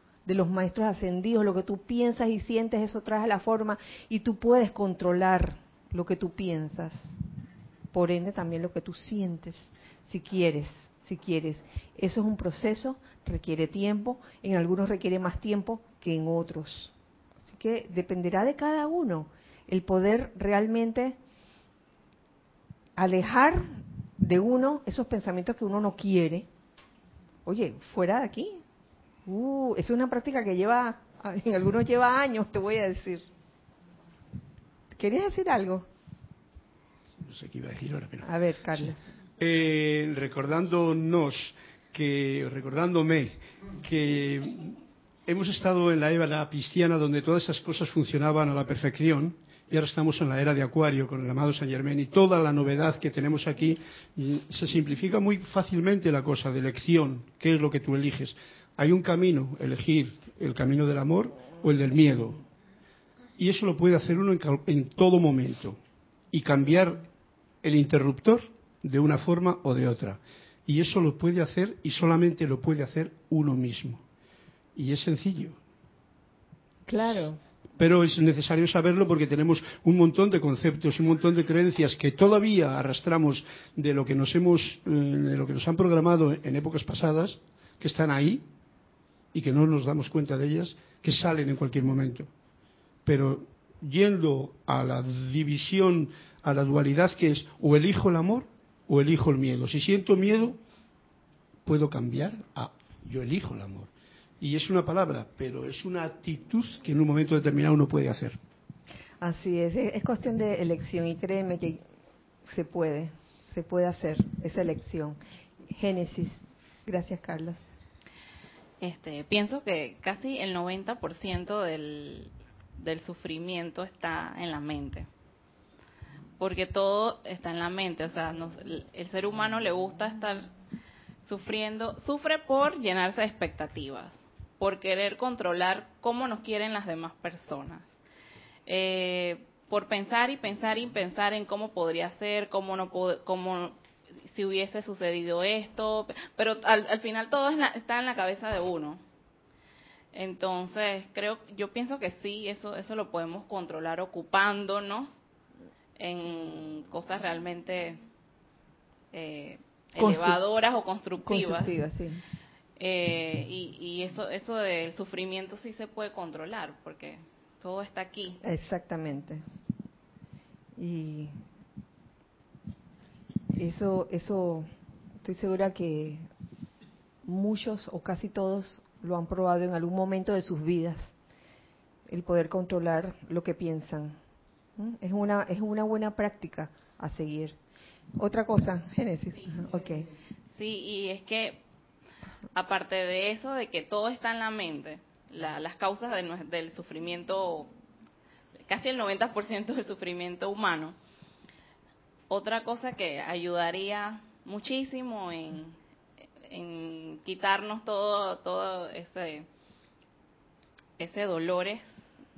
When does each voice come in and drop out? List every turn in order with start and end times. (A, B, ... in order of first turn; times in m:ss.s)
0:00.2-0:07.1 A
0:07.9-0:16.9 A
0:17.4-0:21.2 A
0:23.0-0:26.5 A
0:27.4-0:28.6 A
0:29.2-0:33.2 A
0:35.0-0:35.9 A
0:37.2-1:02.4 B
0:38.2-0:39.0 A
1:03.4-1:05.8 B
1:06.3-1:07.0 B
1:07.6-1:14.0 B
1:14.8-1:15.6 B
1:16.9-1:17.4 A
1:17.8-1:28.4 B
1:29.3-1:32.3 B
1:33.0-1:40.6 B
1:41.6-1:48.4 B
1:49.2-1:51.8 A
1:52.4-1:55.2 A
1:55.7-1:57.6 A
1:58.8-2:05.1 C
2:06.4-2:10.5 C
2:11.2-2:17.9 C
2:18.7-2:29.0 C
2:30.1-2:35.1 C
2:36.0-2:38.0 C
2:39.1-2:41.8 C
2:40.0-2:40.4 A
2:41.2-2:42.2 A
2:42.8-2:48.4 C
2:48.4-2:49.4 A
2:50.8-2:51.3 A
2:53.6-2:54.7 A
2:55.2-2:56.2 A
2:57.2-3:01.1 A
3:02.1-3:04.2 A
3:04.8-3:07.6 A
3:08.2-3:10.1 A
3:10.5-3:11.6 C
3:12.5-3:17.7 C
3:18.7-3:21.0 C
3:22.3-3:25.7 C
3:26.4-3:29.5 C
3:31.0-3:32.1 C